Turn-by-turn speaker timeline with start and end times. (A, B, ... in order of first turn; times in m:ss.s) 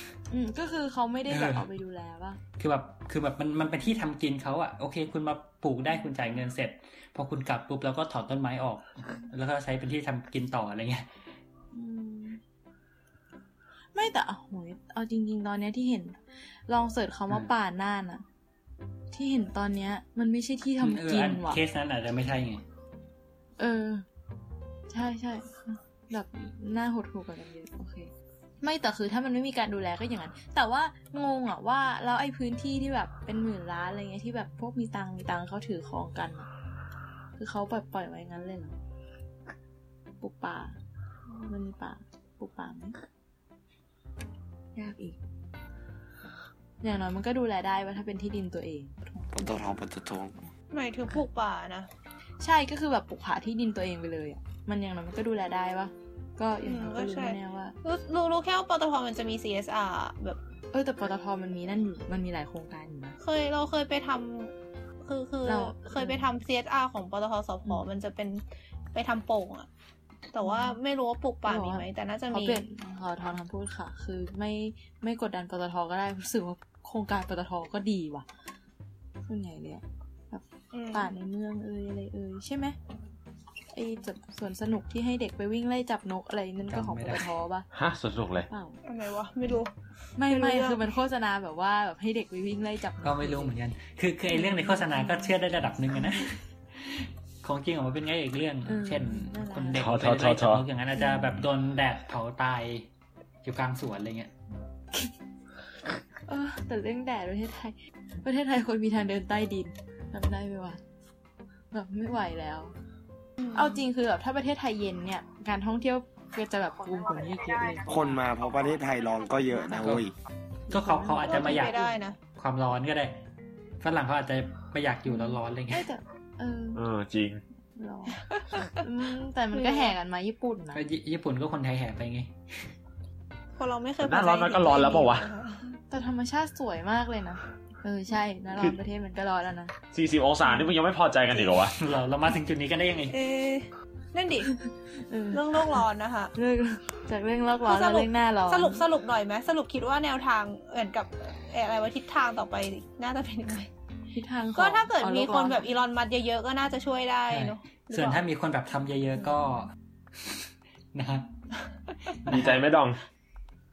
0:00.3-0:02.4 A
0:01.3-0:01.7 B
0:02.6-0:11.1 B
0:05.9-0:06.4 A
0:11.7-0:12.4 A
0:14.0-0:18.2 A
0:19.1-0:21.6 A
0:20.8-0:22.6 B
0:23.6-0:24.0 A
0:24.9-0:28.1 A
0:28.6-0:36.5 A
0:37.4-0:38.8 A
0:40.2-0:40.8 A
0:41.5-0:42.9 A
0:44.8-0:45.2 A
0:46.8-0:49.7 A
0:49.3-0:50.5 C
0:50.7-0:51.9 D
0:52.4-0:57.8 A
0:56.6-1:00.4 D
1:00.7-1:03.2 A
1:03.2-1:08.4 D
1:05.4-1:06.3 A
1:08.9-1:09.7 D
1:10.3-1:12.6 D
1:10.4-1:10.8 A
1:11.5-1:18.3 A
1:19.3-1:22.8 A
1:20.7-1:21.1 D
1:23.7-1:27.7 A
1:26.7-1:27.3 B
1:27.7-1:28.5 E
1:28.5-1:28.8 A
1:28.8-1:29.7 D
1:30.2-1:33.5 A
1:30.3-1:30.8 D
1:33.0-1:42.9 B
1:34.3-1:35.4 A
1:38.7-1:39.8 A
1:39.7-1:40.6 E
1:40.9-1:41.5 A
1:43.4-1:44.3 B
1:46.3-1:50.8 A
1:51.7-1:52.7 A
1:53.4-1:53.8 D
1:53.5-1:58.1 A
1:57.5-1:58.0 D
1:57.9-2:00.1 C
2:00.7-2:02.0 A
2:00.7-2:01.8 B
2:01.3-2:02.2 D
2:02.4-2:03.2 B
2:03.8-2:05.9 B
2:05.0-2:06.8 A
2:06.8-2:07.4 E
2:07.8-2:08.2 A
2:08.8-2:10.8 A
2:09.5-2:09.9 D
2:10.7-2:12.3 B
2:13.6-2:15.6 D
2:14.0-2:15.3 E
2:15.9-2:19.7 A
2:19.9-2:21.7 E
2:21.7-2:23.2 B
2:23.1-2:24.5 D
2:25.1-2:25.6 A
2:25.3-2:26.3 D
2:26.4-2:28.8 A
2:27.6-2:33.7 D
2:34.1-2:35.6 A
2:34.6-2:38.2 D
2:37.3-2:41.7 B
2:42.2-2:42.6 B
2:42.3-2:43.0 E